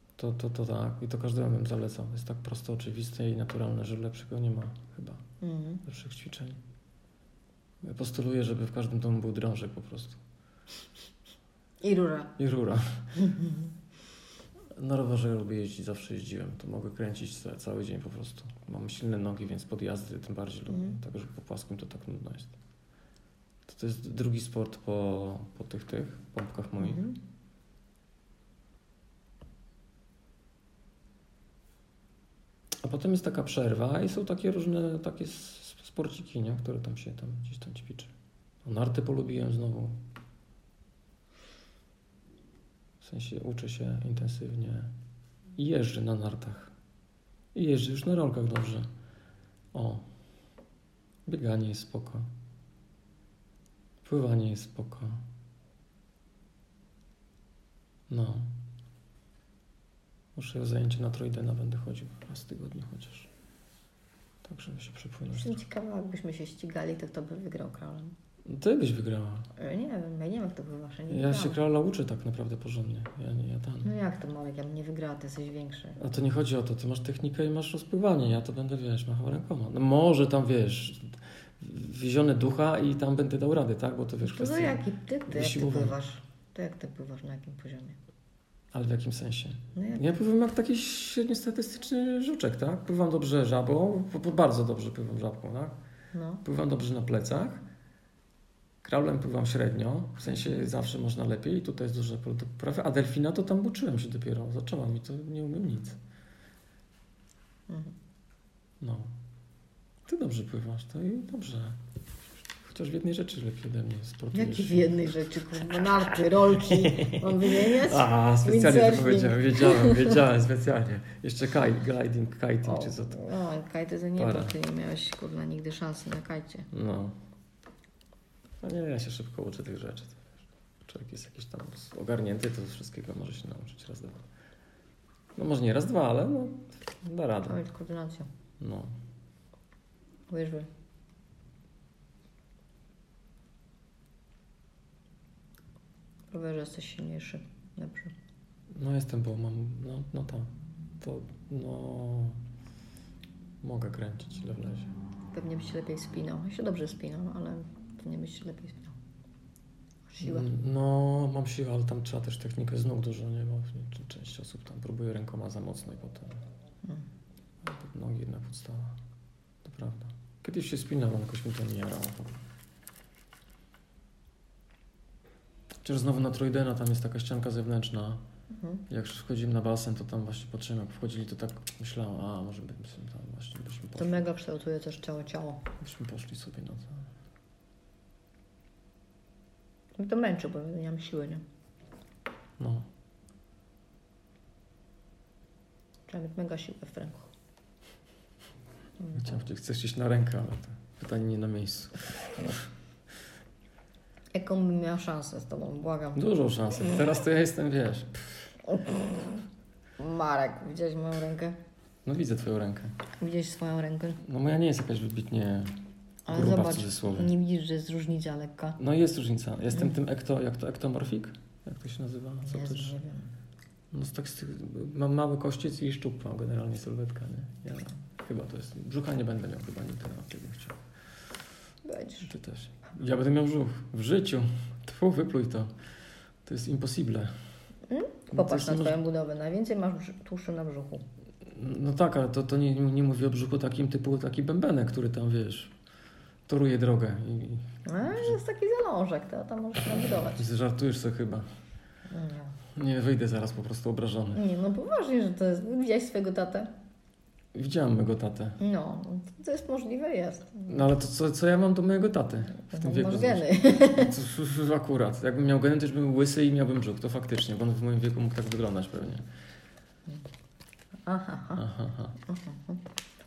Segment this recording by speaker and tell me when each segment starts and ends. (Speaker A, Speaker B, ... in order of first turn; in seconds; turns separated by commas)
Speaker A: 0.2-5.2, Speaker B: 5.4-5.8, Speaker A: 5.8-6.6, Speaker A: 7.8-10.2, Speaker B: 11.8-12.3, Speaker A: 12.4-13.1, Speaker B: 13.1-13.7, Speaker A: 14.8-22.6, Speaker B: 20.7-21.0, Speaker A: 23.6-27.0, Speaker B: 26.8-27.2, Speaker A: 32.8-38.1, Speaker A: 38.6-40.0, Speaker A: 43.0-44.9, Speaker A: 45.5-46.7, Speaker A: 47.5-48.9, Speaker A: 49.7-50.1, Speaker A: 51.2-52.3, Speaker A: 54.0-55.2, Speaker A: 58.1-58.6, Speaker A: 60.4-63.3, Speaker A: 64.4-65.6, Speaker B: 65.3-68.1, Speaker A: 68.5-69.5, Speaker B: 69.6-71.6, Speaker A: 71.1-73.9, Speaker B: 73.8-76.0, Speaker A: 76.0-86.0, Speaker B: 84.2-88.0, Speaker A: 88.7-95.8, Speaker B: 89.7-90.1, Speaker B: 96.1-96.4, Speaker A: 96.4-97.6, Speaker A: 98.8-106.0, Speaker B: 107.7-107.9, Speaker A: 108.8-109.1, Speaker A: 110.1-111.8, Speaker A: 112.6-115.1, Speaker B: 114.3-120.2, Speaker A: 116.5-123.2, Speaker B: 122.6-126.7, Speaker A: 124.2-124.5, Speaker A: 126.7-127.2, Speaker A: 128.6-134.2, Speaker A: 135.4-137.6, Speaker B: 137.4-138.3, Speaker A: 138.6-138.9, Speaker B: 140.3-140.7, Speaker B: 146.3-148.1, Speaker A: 148.7-152.4, Speaker A: 153.6-154.9, Speaker B: 155.3-158.9, Speaker B: 160.1-160.5, Speaker A: 160.2-166.4, Speaker A: 167.6-169.0, Speaker A: 169.6-172.4, Speaker A: 175.8-178.2, Speaker B: 178.5-178.8, Speaker A: 178.9-184.2, Speaker B: 184.0-185.7, Speaker A: 185.8-187.1, Speaker B: 190.0-191.4, Speaker A: 192.6-192.9, Speaker B: 196.1-197.3, Speaker A: 199.1-202.6, Speaker B: 204.3-206.2, Speaker A: 206.1-208.5, Speaker B: 208.7-209.4, Speaker B: 210.0-211.6, Speaker A: 212.0-213.0, Speaker B: 213.2-214.2, Speaker A: 214.2-217.3, Speaker B: 216.2-218.8, Speaker A: 218.8-222.9, Speaker B: 222.4-223.3, Speaker A: 223.9-230.8, Speaker B: 231.8-232.3, Speaker A: 232.2-235.7, Speaker A: 236.4-237.3, Speaker B: 237.9-241.0, Speaker A: 238.3-239.0, Speaker A: 241.4-245.7, Speaker A: 246.5-248.4, Speaker B: 247.8-250.5, Speaker A: 250.4-251.5, Speaker B: 252.1-252.6, Speaker A: 252.7-254.4, Speaker B: 254.3-256.7, Speaker A: 257.5-258.6, Speaker B: 258.6-260.9, Speaker A: 260.7-269.3, Speaker B: 262.6-264.2, Speaker B: 271.0-271.7, Speaker A: 271.6-272.1, Speaker B: 272.2-272.8